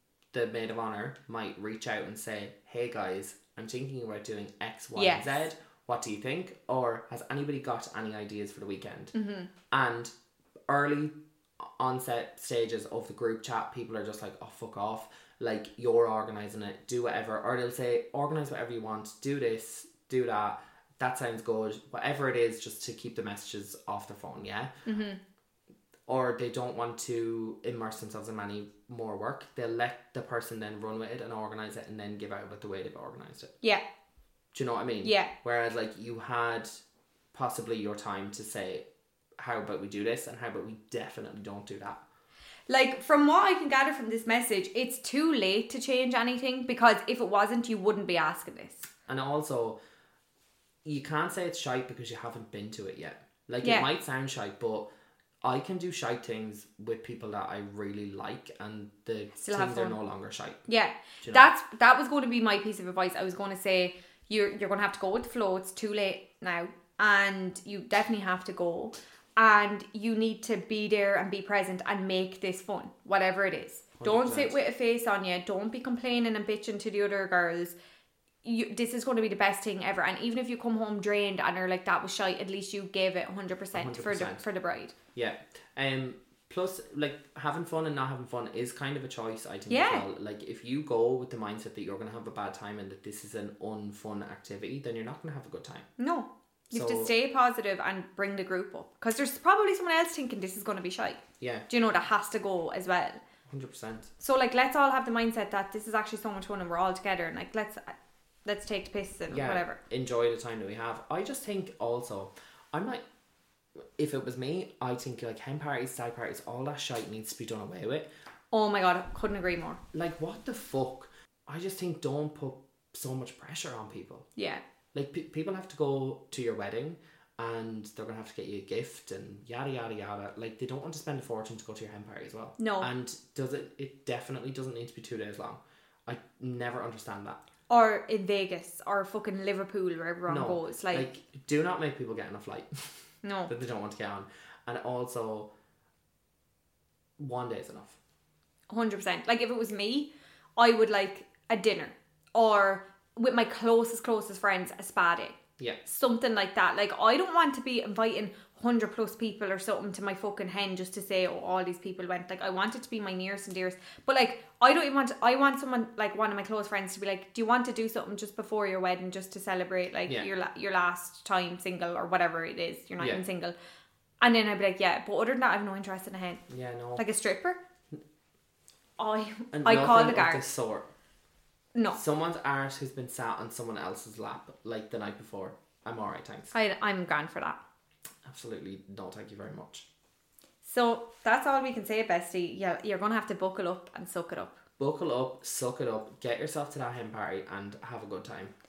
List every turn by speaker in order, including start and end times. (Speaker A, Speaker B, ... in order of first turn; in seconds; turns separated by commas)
Speaker A: 0.3-9.2, Speaker B: 5.0-5.4, Speaker B: 9.2-9.5, Speaker A: 9.7-10.1, Speaker A: 10.7-11.1, Speaker A: 11.7-24.7, Speaker B: 24.9-25.2, Speaker A: 26.1-33.5, Speaker A: 34.5-36.8, Speaker B: 35.0-35.3, Speaker A: 37.3-38.9, Speaker A: 39.4-42.0, Speaker B: 42.7-48.9, Speaker A: 49.1-49.8, Speaker A: 50.9-54.9, Speaker A: 55.4-60.7, Speaker B: 59.4-60.0, Speaker B: 60.7-77.8, Speaker A: 61.2-61.5, Speaker A: 74.0-74.6, Speaker B: 78.4-84.9, Speaker A: 83.7-84.4, Speaker A: 85.2-95.9, Speaker B: 89.7-90.0, Speaker B: 96.0-103.2, Speaker A: 96.7-97.1, Speaker A: 101.4-101.7, Speaker A: 103.5-104.1, Speaker B: 104.2-108.0, Speaker B: 108.5-109.8, Speaker A: 109.3-113.0, Speaker A: 114.0-118.1, Speaker B: 118.5-119.8, Speaker A: 119.9-124.3, Speaker B: 124.4-124.6, Speaker A: 124.9-137.4, Speaker B: 132.6-132.9, Speaker B: 137.7-141.1, Speaker A: 140.3-142.9, Speaker B: 143.2-143.5, Speaker A: 143.5-145.5, Speaker A: 147.2-148.0, Speaker B: 148.7-173.6, Speaker B: 174.2-176.4, Speaker A: 176.5-177.0, Speaker B: 177.0-177.6, Speaker B: 179.0-180.4, Speaker A: 179.5-180.9, Speaker A: 181.9-186.5, Speaker B: 186.5-187.6, Speaker A: 188.2-189.9, Speaker B: 190.6-194.6, Speaker A: 194.8-198.5